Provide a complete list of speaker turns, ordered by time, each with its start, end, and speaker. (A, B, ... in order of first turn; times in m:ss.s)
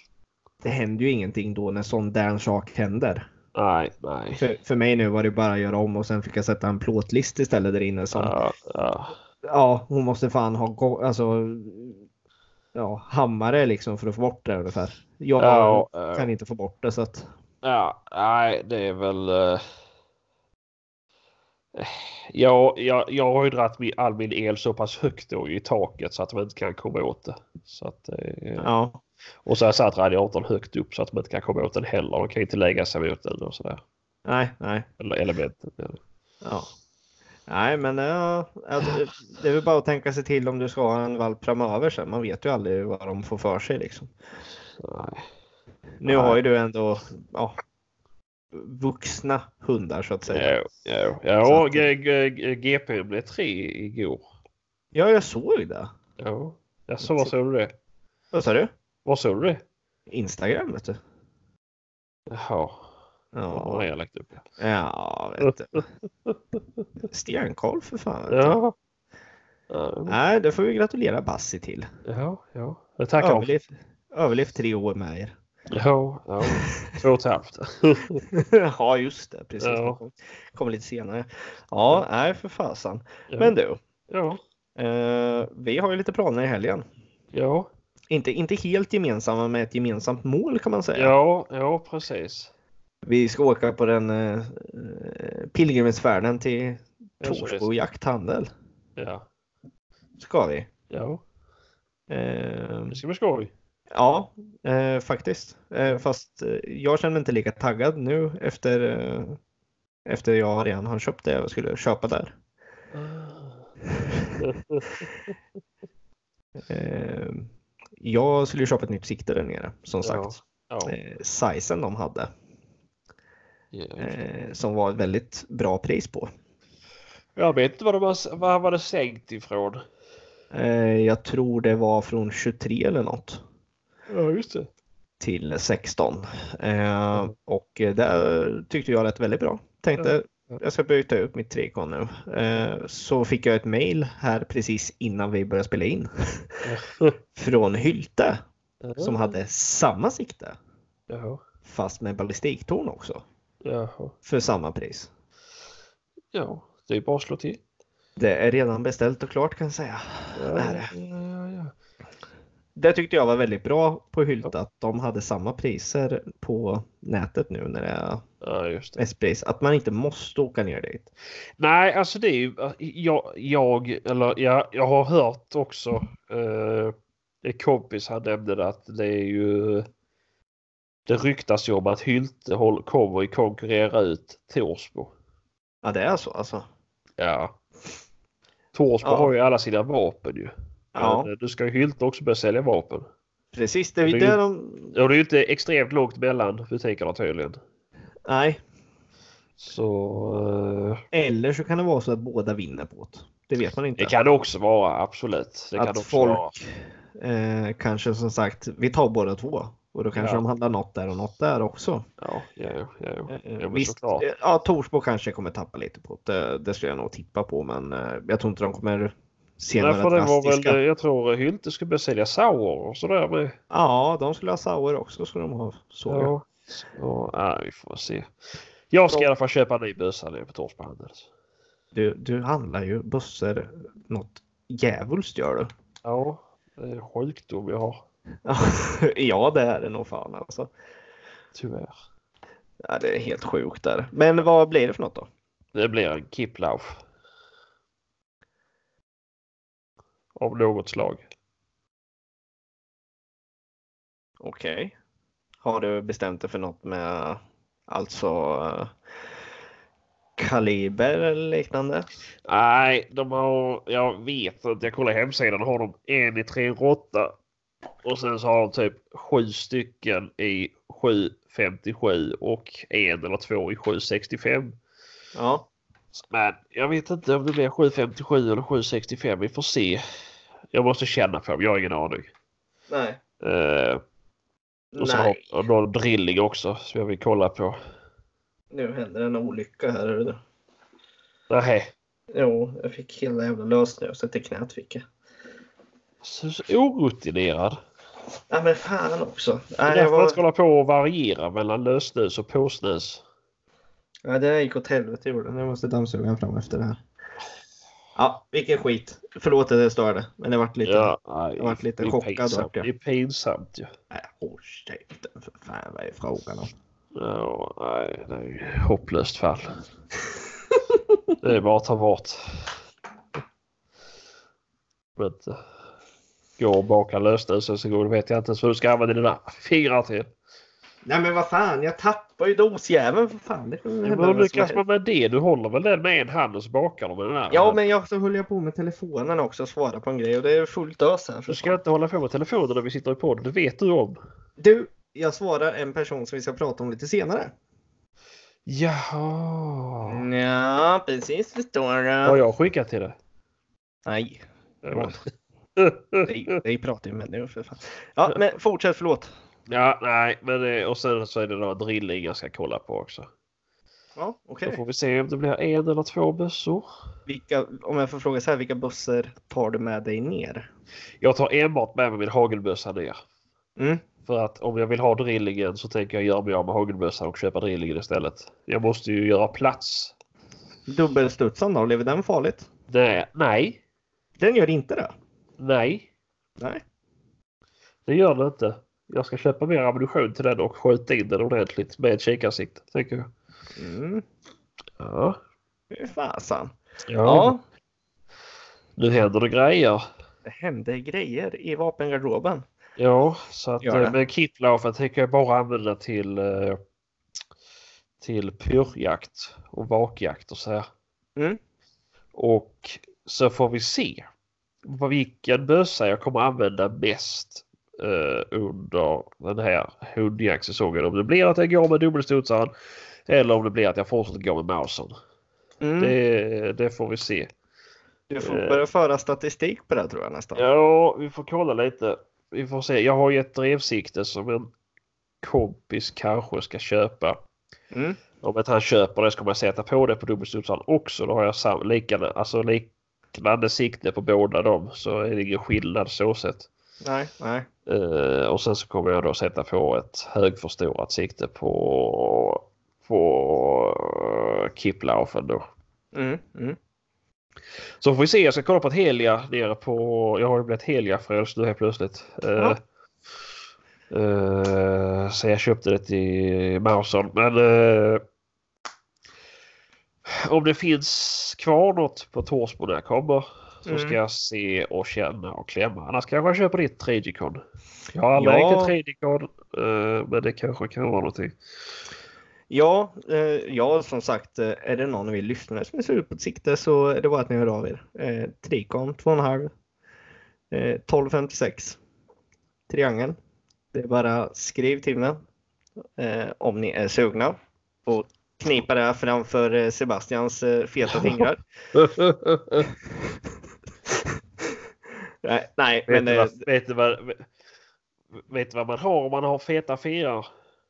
0:00.6-0:03.3 A
0:03.6-0:04.4 B
0:04.4-0:08.4 A
0:08.2-0:09.2 B
0:09.4-0:12.0 A
0:12.8-0:17.3 A
0:15.4-0:16.3 B
0:17.6-0:19.6 B
0:21.8-0:28.7 B
0:28.6-0:29.0 A
0:29.4-0:33.8 B
0:34.3-0:34.9 A
0:35.0-0:36.0 B
0:36.4-0:36.7 A
0:37.5-0:44.1 A
0:44.8-0:45.2 B
0:46.0-0:47.6 A
0:46.1-0:46.4 B
0:48.5-0:50.5 A
0:50.3-0:54.3 B
0:51.4-0:51.9 A
0:54.9-0:55.9 A
0:56.2-0:57.7 B
0:57.0-0:57.3 A
0:58.3-0:58.7 A
0:59.0-0:59.6 B
1:00.1-1:01.0 A
1:02.3-1:02.9 B
1:03.3-1:03.8 A
1:03.5-1:04.4 B
1:04.6-1:05.8 A
1:05.4-1:06.6 B
1:07.1-1:08.6 A
1:08.3-1:08.8 B
1:09.7-1:10.2 B
1:10.1-1:11.9 A
1:12.1-1:13.5 B
1:13.2-1:15.3 A
1:15.7-1:18.2 B
1:16.4-1:16.9 A
1:18.3-1:23.8 A
1:19.6-1:20.0 B
1:23.3-1:23.6 B
1:24.1-1:24.4 B
1:24.8-1:26.8 A
1:27.3-1:27.7 B
1:28.1-1:31.1 A
1:31.0-1:32.5 B
1:33.0-1:38.5 A
1:37.2-1:37.7 B
1:39.0-1:39.3 B
1:40.2-1:40.7 A
1:40.9-1:41.2 B
1:42.1-1:43.0 A
1:42.9-1:43.5 B
1:43.9-1:49.4 A
1:50.1-1:52.3 A
1:52.9-1:53.7 B
1:54.1-1:54.4 A
1:54.4-1:55.3 B
1:56.6-1:57.5 A
1:58.0-2:00.4 A
2:00.0-2:01.0 B
2:00.9-2:02.3 A
2:03.7-2:04.2 B
2:04.0-2:06.3 A
2:07.4-2:09.8 B
2:10.5-2:13.4 A
2:14.1-2:14.7 B
2:15.2-2:26.6 A
2:20.0-2:20.6 B
2:26.6-2:27.2 B
2:27.4-2:28.4 A
2:28.8-2:29.3 B
2:29.0-2:30.6 A
2:31.1-2:31.4 B
2:31.7-2:33.2 A
2:33.6-2:34.1 B
2:34.2-2:35.1 A
2:36.3-2:37.6 B
2:38.2-2:40.9 A
2:40.4-2:41.7 B
2:42.8-2:48.2 A
2:48.4-2:49.0 B
2:49.0-2:51.1 A
2:51.6-2:59.9 B
3:01.1-3:05.1 B
3:05.8-3:06.6 A
3:07.2-3:07.6 B
3:08.7-3:13.1 B
3:09.0-3:09.3 A
3:11.0-3:11.3 A
3:13.5-3:14.9 A
3:14.0-3:14.4 B
3:14.9-3:17.6 B
3:18.3-3:18.6 A
3:19.6-3:21.0 B
3:21.1-3:24.1 A
3:24.0-3:26.6 B
3:25.8-3:32.1 A
3:30.2-3:30.4 B
3:32.2-3:34.3 B
3:33.3-3:40.8 A
3:39.8-3:43.6 B
3:43.7-3:46.3 A
3:46.1-3:48.3 B
3:48.9-3:51.3 B
3:51.9-3:55.7 A
3:56.0-3:58.0 B
3:58.4-4:00.7 A
4:01.6-4:02.0 B
4:02.8-4:05.3 A
4:05.8-4:07.0 B
4:10.4-4:11.2 B
4:14.4-4:15.0 A
4:15.6-4:18.9 A
4:20.4-4:22.1 A
4:22.5-4:27.3 B
4:28.0-4:34.8 B
4:35.4-4:35.7 A
4:36.1-4:40.0 B
4:40.7-4:42.3 B
4:42.9-4:43.2 A
4:43.4-4:44.0 B
4:44.9-4:45.4 A
4:45.0-4:47.8 B
4:48.7-4:50.4 A
4:51.5-4:51.9 B
4:52.3-4:55.0 A
4:56.2-4:57.8 B
4:58.5-5:00.4 A
4:59.9-5:03.2 B
5:04.2-5:07.0 A
5:08.2-5:12.9 A
5:10.8-5:13.9 B
5:14.1-5:16.7 A
5:17.2-5:19.8 B
5:21.4-5:22.8 B
5:25.2-5:25.6 B
5:26.6-5:30.3 B
5:31.0-5:34.8 A
5:34.0-5:37.8 B
5:37.5-5:41.8 A
5:41.5-5:44.2 B
5:44.6-5:47.5 A
5:48.7-5:50.2 B
5:50.1-5:52.4 A
5:52.2-5:53.2 B
5:54.0-5:55.2 A
5:54.8-5:55.2 B
5:55.8-5:56.6 B
5:56.3-5:59.3 A
5:59.7-6:03.3 B
6:04.2-6:04.8 A
6:04.6-6:06.9 B
6:07.3-6:10.7 A
6:11.2-6:13.2 B
6:13.8-6:14.0 A
6:14.3-6:20.2 B
6:20.9-6:22.7 A
6:22.9-6:23.8 B
6:24.4-6:25.1 A
6:25.6-6:26.1 B
6:28.1-6:33.3 B
6:33.8-6:34.2 A
6:35.0-6:35.4 B
6:35.9-6:36.7 A
6:37.1-6:37.5 B
6:37.2-6:37.6 A
6:39.0-6:40.0 B
6:40.4-6:42.6 A
6:43.0-6:46.8 B
6:43.8-6:44.2 A
6:48.2-6:50.9 B
6:52.4-6:54.3 B
6:54.8-7:02.7 B
7:03.3-7:05.2 B
7:05.8-7:06.2 A
7:06.0-7:07.5 B
7:08.3-7:10.6 A
7:08.4-7:08.8 B
7:10.6-7:14.7 B
7:15.4-7:17.4 B
7:17.9-7:18.2 A
7:18.4-7:26.7 B
7:27.0-7:27.7 A
7:27.9-7:35.6 B
7:36.1-7:36.8 A
7:38.0-7:42.8 B
7:44.1-7:48.2 B
7:50.3-7:57.6 B
7:53.9-7:54.2 A
7:58.1-8:01.6 B
7:58.4-7:58.9 A
8:02.7-8:09.7 A
8:10.7-8:12.0 A
8:12.9-8:13.4 A
8:13.9-8:15.4 A
8:16.2-8:21.6 A
8:21.1-8:22.9 B
8:25.4-8:26.6 A
8:26.1-8:27.5 B
8:28.4-8:30.5 B